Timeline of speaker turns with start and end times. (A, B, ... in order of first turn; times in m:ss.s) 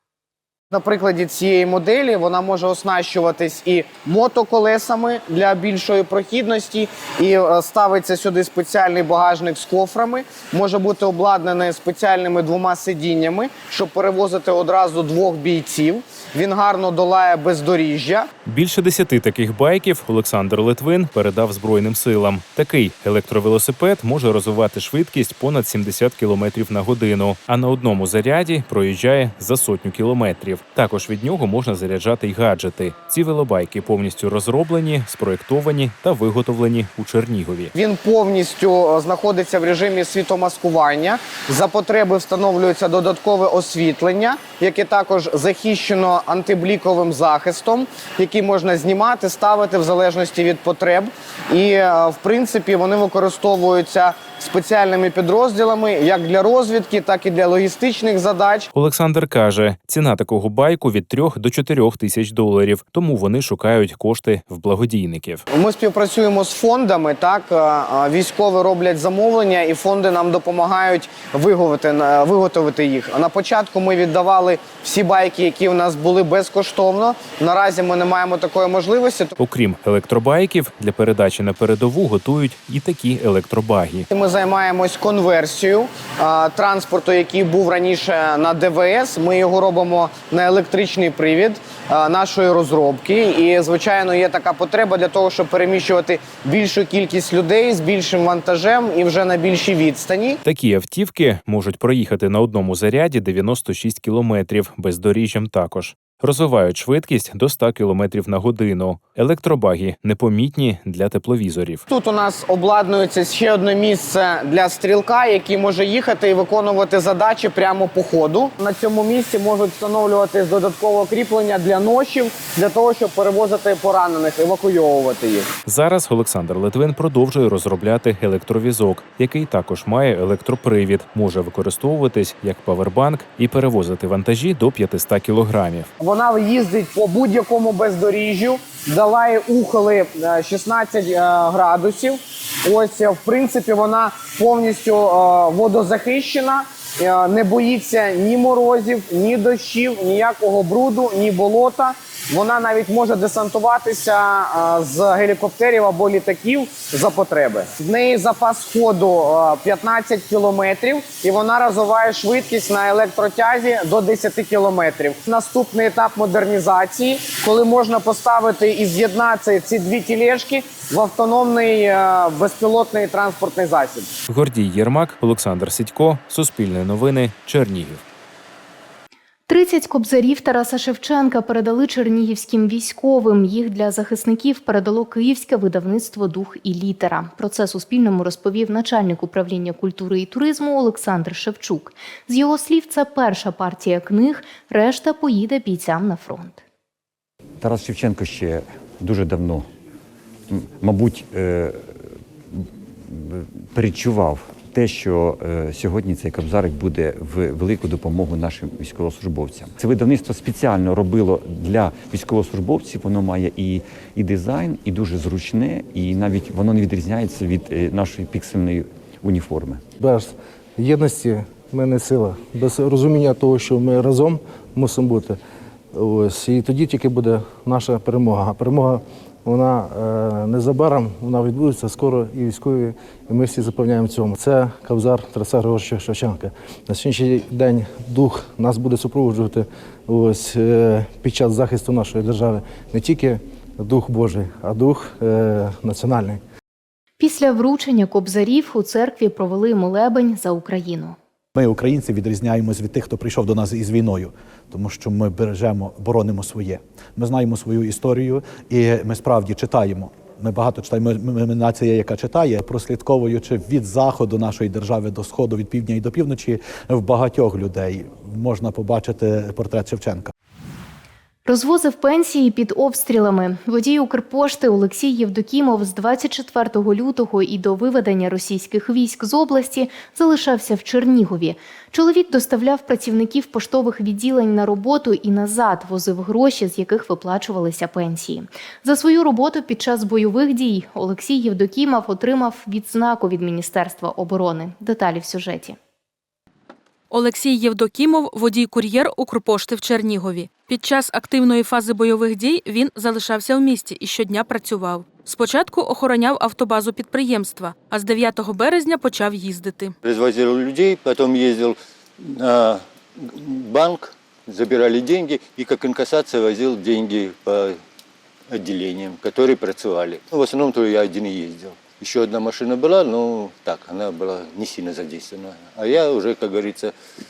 0:00.7-0:18.3 A
0:18.4-0:37.7 B
0:37.8-0:58.7 A
0:58.7-1:05.4 B
1:05.5-1:19.4 A
1:19.4-1:24.0 B
1:24.1-1:40.4 A
1:40.4-1:51.8 B
1:51.9-2:05.5 A
2:05.7-2:15.9 B
2:16.0-2:54.1 A
2:54.3-2:58.0 B
2:59.5-3:16.6 C
3:17.6-3:19.7 D
3:20.5-3:39.8 D
3:40.0-3:45.4 E
3:45.9-4:06.4 E
4:07.2-4:11.2 C
4:11.6-4:30.3 F
4:31.5-4:55.8 C
4:57.1-5:09.9 G
5:10.0-5:17.8 H
5:18.5-5:26.9 H